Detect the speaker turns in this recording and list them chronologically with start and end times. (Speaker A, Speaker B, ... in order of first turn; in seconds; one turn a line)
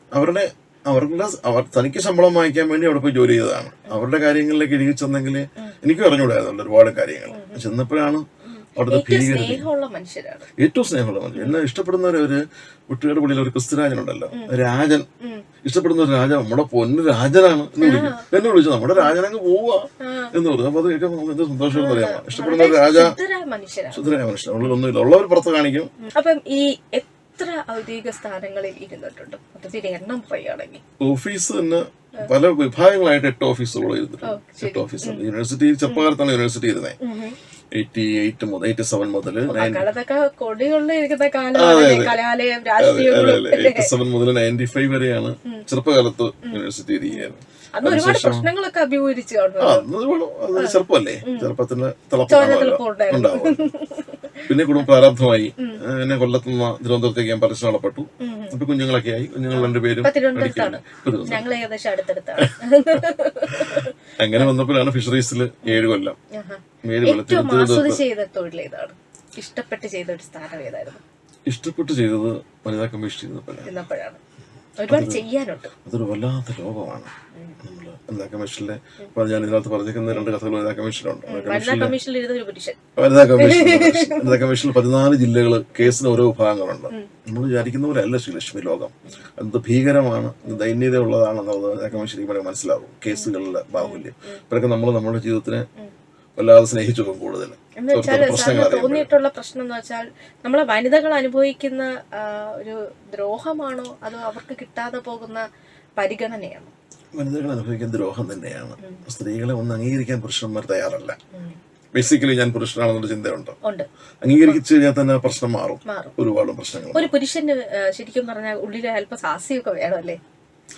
Speaker A: 0.2-8.2
Speaker B: 7.3-7.6
Speaker B: 8.4-10.5
Speaker A: 8.8-9.7
Speaker A: 10.6-15.1
Speaker A: 15.6-23.2
Speaker B: 17.8-18.3
Speaker B: 20.0-20.3
Speaker B: 21.7-24.1
Speaker A: 23.9-25.9
Speaker B: 26.0-30.8
Speaker A: 31.0-37.0
Speaker B: 34.2-35.2
Speaker B: 37.0-37.4
Speaker A: 37.8-39.9
Speaker B: 39.5-43.9
Speaker A: 41.5-42.2
Speaker A: 42.8-48.5
Speaker B: 46.5-49.9
Speaker A: 49.6-53.7
Speaker B: 50.6-51.5
Speaker B: 52.3-54.5
Speaker A: 54.5-61.5
Speaker B: 58.2-58.6
Speaker B: 59.5-64.5
Speaker A: 62.4-66.2
Speaker B: 65.7-71.0
Speaker A: 66.8-68.0
Speaker A: 71.5-73.8
Speaker B: 73.7-74.2
Speaker B: 74.8-75.7
Speaker A: 74.9-75.3
Speaker A: 75.8-82.0
Speaker B: 77.3-77.6
Speaker B: 81.3-82.8
Speaker A: 83.0-95.7
Speaker B: 83.4-84.4
Speaker B: 93.1-94.4
Speaker A: 96.4-99.1
Speaker B: 97.8-105.4
Speaker B: 106.0-106.7
Speaker A: 107.1-111.2
Speaker A: 111.9-113.6
Speaker A: 114.2-117.1
Speaker B: 115.9-116.1
Speaker B: 116.9-120.2